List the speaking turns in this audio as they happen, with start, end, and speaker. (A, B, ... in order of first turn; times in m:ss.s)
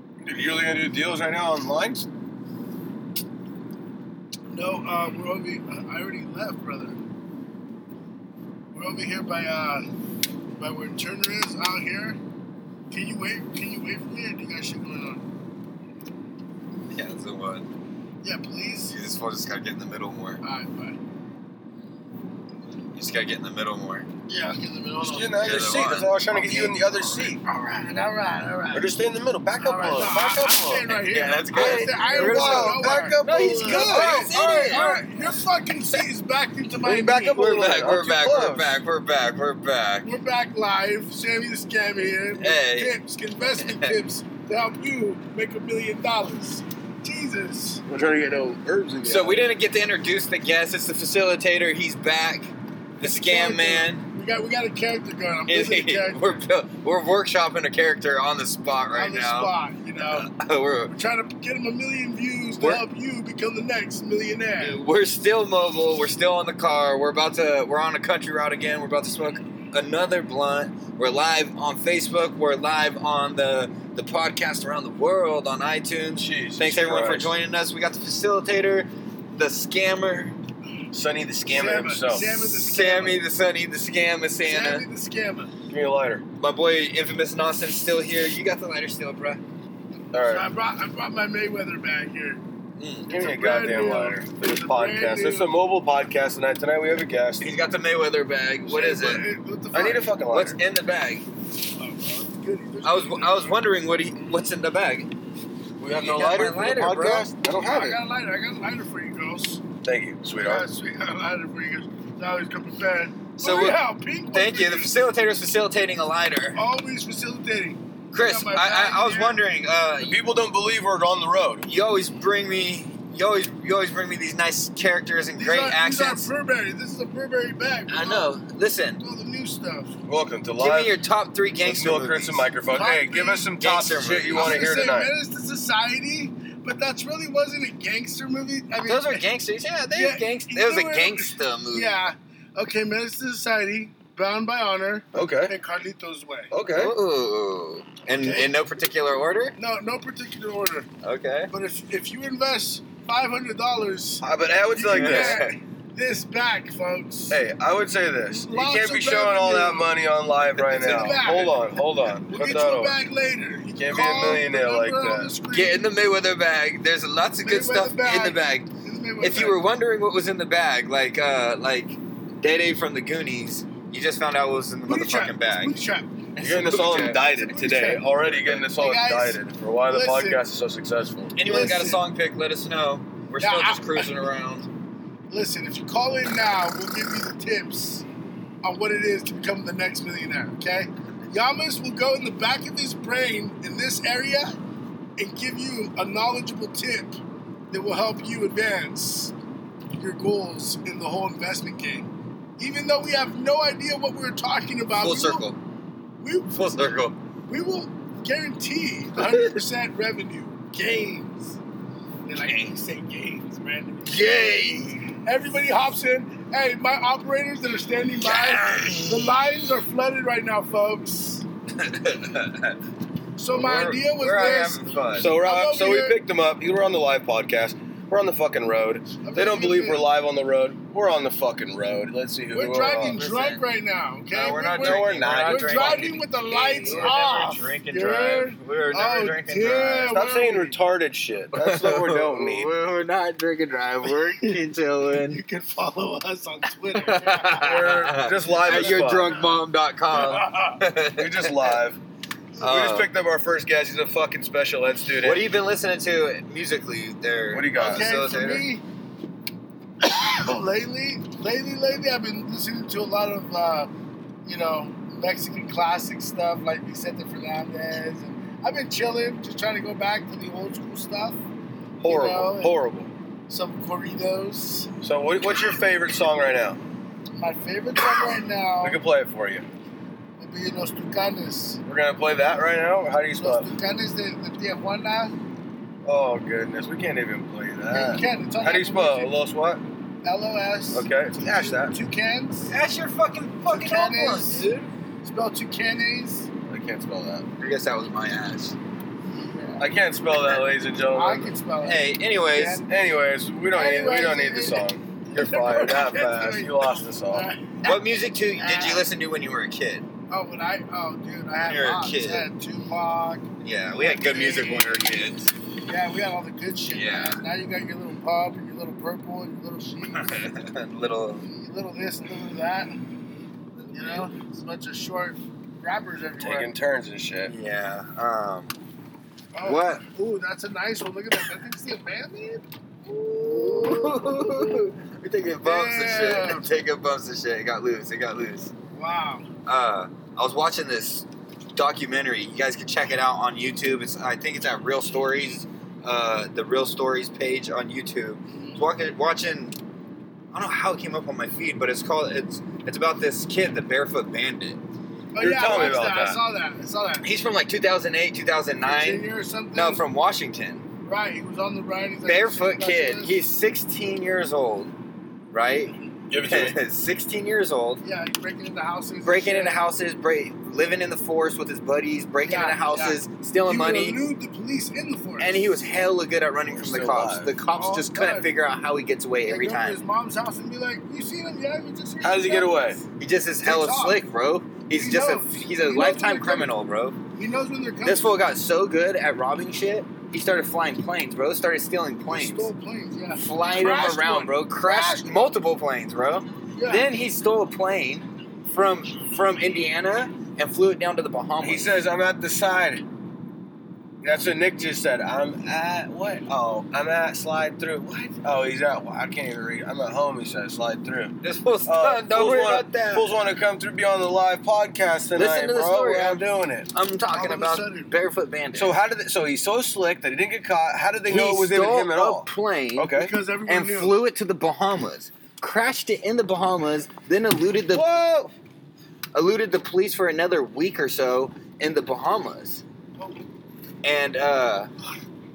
0:00.2-0:02.1 A
0:04.5-0:07.0 B
0:08.7-0:09.8 B
0:10.6-0:12.2 B
0:12.9-0:15.3 B
0:16.9-0:17.7 C
0:18.2-0:18.9 B
0:18.9-0:20.4 C
0:20.4-0:21.0 B
0:22.9-0:24.1 C
0:24.3-0:25.7 B
0:25.0-0:27.4 A
0:25.4-0:26.1 C
0:26.2-0:28.9 B
0:28.7-0:31.0 A
0:29.6-0:37.4 B
0:31.1-0:35.3 C
0:31.5-0:34.4 A
0:36.8-0:38.7 A
0:37.3-0:40.1 C
0:40.0-0:47.8 B
0:42.4-0:43.0 C
0:43.6-0:44.0 C
0:47.8-0:49.5 A
0:49.0-0:54.0 C
0:53.0-0:56.4 B
0:55.5-1:00.9 C
0:58.9-1:00.3 B
1:00.9-1:04.8 B
1:02.6-1:02.8 C
1:04.6-1:20.4 C
1:16.2-1:17.3 A
1:20.9-1:22.4 A
1:21.4-1:23.2 B
1:22.5-1:24.8 C
1:24.4-1:25.5 B
1:25.7-1:26.2 A
1:26.4-1:29.4 C
1:30.1-1:30.5 A
1:30.2-1:32.4 B
1:32.8-1:33.1 C
1:33.1-1:37.5 A
1:33.1-1:35.6 B
1:37.4-1:39.2 C
1:38.6-1:40.1 B
1:39.7-1:40.6 A
1:40.3-1:41.2 C
1:41.7-1:43.6 B
1:42.8-1:45.1 C
1:45.8-1:48.0 A
1:46.0-1:47.3 C
1:47.5-1:49.6 B
1:49.8-1:50.6 A
1:50.3-1:54.9 B
1:53.4-1:56.6 C
1:56.5-1:59.4 B
1:58.1-2:00.2 C
2:00.0-2:01.6 A
2:01.6-2:06.3 C
2:05.4-2:08.3 B
2:07.9-2:09.0 C
2:09.0-2:10.0 B
2:10.1-2:11.0 A
2:10.6-2:12.5 C
2:11.6-2:15.1 A
2:12.7-2:13.5 B
2:13.6-2:14.6 C
2:14.3-2:19.2 B
2:18.8-2:22.0 C
2:19.9-2:26.5 B
2:25.1-2:25.5 A
2:26.5-2:26.9 A
2:26.8-2:29.6 C
2:28.1-2:28.6 B
2:29.6-2:30.9 B
2:31.0-2:31.5 C
2:31.5-2:37.4 B
2:34.2-2:35.4 A
2:34.9-2:35.6 C
2:37.3-2:43.0 A
2:38.3-2:40.0 B
2:40.6-2:45.9 B
2:43.8-2:45.3 A
2:45.5-2:48.7 C
2:47.4-2:49.6 B
2:49.2-2:55.7 C
2:54.8-2:56.2 B
2:56.4-2:57.2 C
2:56.4-3:01.3 A
2:56.9-3:00.4 B
3:01.4-3:04.7 C
3:01.4-3:02.0 B
3:03.4-3:04.2 B
3:05.3-3:08.0 B
3:08.6-3:14.6 B
3:15.2-3:17.2 B
3:17.7-3:19.3 B
3:19.9-3:25.5 B
3:24.9-3:25.6 C
3:26.2-3:31.6 B
3:26.5-3:27.2 C
3:32.2-3:41.4 B
3:32.4-3:32.7 C
3:34.0-3:35.1 C
3:38.2-3:39.3 C
3:41.8-3:42.8 C
3:43.4-3:46.2 B
3:43.5-3:45.3 C
3:45.2-3:53.2 A
3:49.2-3:50.1 B
3:52.5-4:00.8 B
3:53.1-3:53.6 C
3:54.3-4:00.2 C
3:54.8-3:56.1 A
4:00.1-4:02.7 A
4:01.5-4:05.4 C
4:04.2-4:08.1 B
4:06.9-4:11.8 C
4:07.6-4:09.3 A
4:08.7-4:09.5 B
4:10.1-4:10.8 B
4:11.2-4:12.0 A
4:12.6-4:13.1 C
4:12.6-4:15.4 A
4:15.2-4:18.7 C
4:17.5-4:18.1 A
4:17.8-4:18.8 B
4:20.0-4:23.9 B
4:24.4-4:31.4 B
4:32.0-4:33.1 A
4:32.0-4:32.8 B
4:33.5-4:34.9 B
4:35.0-4:36.8 A
4:37.4-4:39.0 B
4:38.8-4:39.6 A
4:40.4-4:41.8 B
4:41.8-4:43.7 A
4:43.4-4:45.4 B
4:46.0-4:49.8 A
4:47.9-4:49.4 B
4:50.2-4:52.7 B
4:50.9-4:51.9 A
4:52.7-4:54.9 C
4:53.7-4:54.7 B
4:55.2-4:56.5 B
4:56.7-4:57.4 A
4:57.6-4:58.7 C
4:59.3-4:59.9 B
4:59.8-5:01.5 A
5:01.0-5:02.8 B
5:01.8-5:02.8 C
5:02.8-5:07.5 A
5:03.7-5:09.0 B
5:05.8-5:06.6 C
5:07.8-5:10.0 C
5:10.3-5:15.2 B
5:11.6-5:12.5 C
5:13.6-5:15.5 C
5:15.8-5:20.4 B
5:16.9-5:17.4 C
5:20.2-5:21.4 C
5:21.4-5:23.0 B
5:23.8-5:24.3 C
5:23.9-5:26.7 B
5:26.4-5:27.5 A
5:27.5-5:28.7 C
5:29.5-5:34.8 B
5:29.6-5:30.0 C
5:33.1-5:38.7 C
5:35.6-5:36.7 B
5:38.9-5:39.5 B
5:39.6-5:49.8 C
5:48.5-5:48.9 B
5:50.5-5:54.8 C
5:55.3-5:57.3 B
5:55.4-5:56.4 A
5:57.2-6:00.8 C
5:58.8-6:00.0 B
6:01.0-6:03.4 B
6:02.2-6:04.9 C
6:05.5-6:08.0 C
6:06.3-6:06.8 A
6:08.0-6:09.8 B
6:09.2-6:14.2 C
6:12.4-6:15.8 B
6:15.4-6:20.0 C
6:16.7-6:17.5 A
6:17.7-6:18.5 B
6:19.4-6:23.0 B
6:22.2-6:23.0 A
6:23.2-6:27.2 C
6:23.6-6:24.2 B
6:24.9-6:26.7 B
6:27.4-6:28.4 B
6:28.0-6:32.7 C
6:32.3-6:35.6 B
6:33.3-6:42.0 C
6:36.8-6:37.2 B
6:41.6-6:43.0 A
6:44.2-6:51.3 A
6:51.4-6:53.3 C
6:51.8-6:56.9 A
6:55.4-6:59.0 C
6:57.3-6:58.1 B
6:58.7-7:03.3 A
7:01.3-7:08.2 C
7:03.1-7:04.2 B
7:07.9-7:08.5 A
7:09.3-7:12.8 C
7:13.2-7:13.4 B
7:14.0-7:14.9 C